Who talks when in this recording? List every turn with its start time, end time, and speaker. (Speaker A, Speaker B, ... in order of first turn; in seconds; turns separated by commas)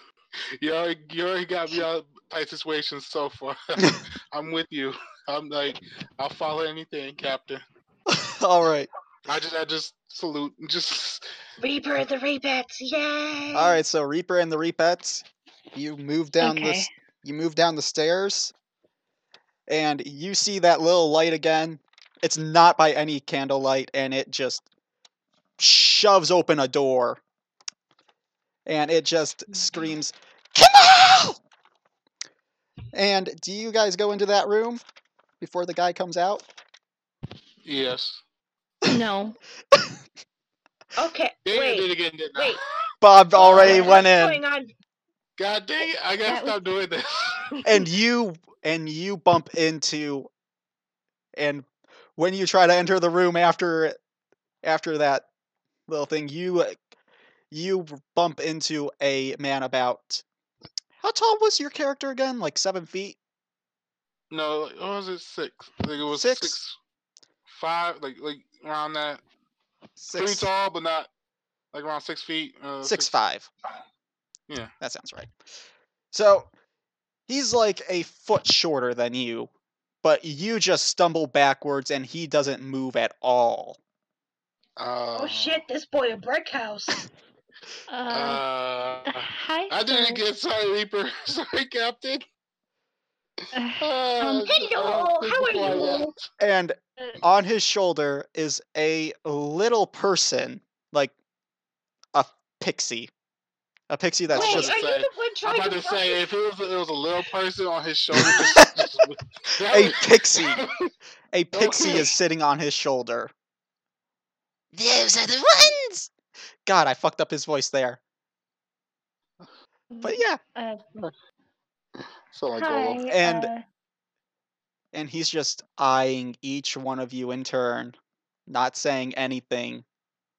Speaker A: 0.6-7.6, Speaker B: 8.1-8.9, Speaker A: 9.2-11.2, Speaker C: 11.6-13.8, Speaker B: 13.5-18.5, Speaker D: 16.4-16.9, Speaker B: 19.7-24.6, Speaker B: 25.6-27.2, Speaker B: 28.6-31.4, Speaker B: 32.9-34.8, Speaker B: 35.4-36.4, Speaker A: 37.6-38.2, Speaker D: 38.9-39.4, Speaker C: 41.0-42.6, Speaker A: 41.5-42.6, Speaker B: 43.0-44.4, Speaker A: 43.3-43.9, Speaker C: 43.4-44.7, Speaker D: 43.6-44.0, Speaker A: 45.4-47.4, Speaker D: 46.2-46.6, Speaker B: 47.6-50.3, Speaker B: 51.4-54.0, Speaker B: 54.6-55.3, Speaker B: 55.9-56.8, Speaker B: 57.5-60.2, Speaker B: 61.0-63.2, Speaker A: 64.3-66.8, Speaker B: 66.1-66.6, Speaker A: 67.5-69.2, Speaker B: 70.0-70.5, Speaker A: 70.1-71.1, Speaker A: 71.7-73.1, Speaker B: 72.8-73.5, Speaker B: 74.8-75.3, Speaker B: 76.1-76.5, Speaker B: 77.3-79.5, Speaker B: 80.0-83.8, Speaker A: 84.8-85.6, Speaker C: 85.1-87.0, Speaker D: 87.9-88.4, Speaker A: 88.1-92.2, Speaker D: 89.1-90.2, Speaker D: 93.5-94.5, Speaker A: 93.8-96.2, Speaker C: 94.5-96.1, Speaker B: 96.4-101.1, Speaker B: 102.1-103.1, Speaker B: 103.9-104.8, Speaker A: 104.3-110.7, Speaker C: 104.3-106.2, Speaker B: 109.6-110.6, Speaker B: 111.3-113.3, Speaker A: 111.5-112.1, Speaker B: 114.7-116.1, Speaker B: 116.7-118.0, Speaker D: 119.9-120.9, Speaker B: 120.0-120.4, Speaker A: 122.3-123.0, Speaker D: 122.5-123.6, Speaker B: 123.1-123.5, Speaker B: 124.9-128.0, Speaker B: 128.5-129.8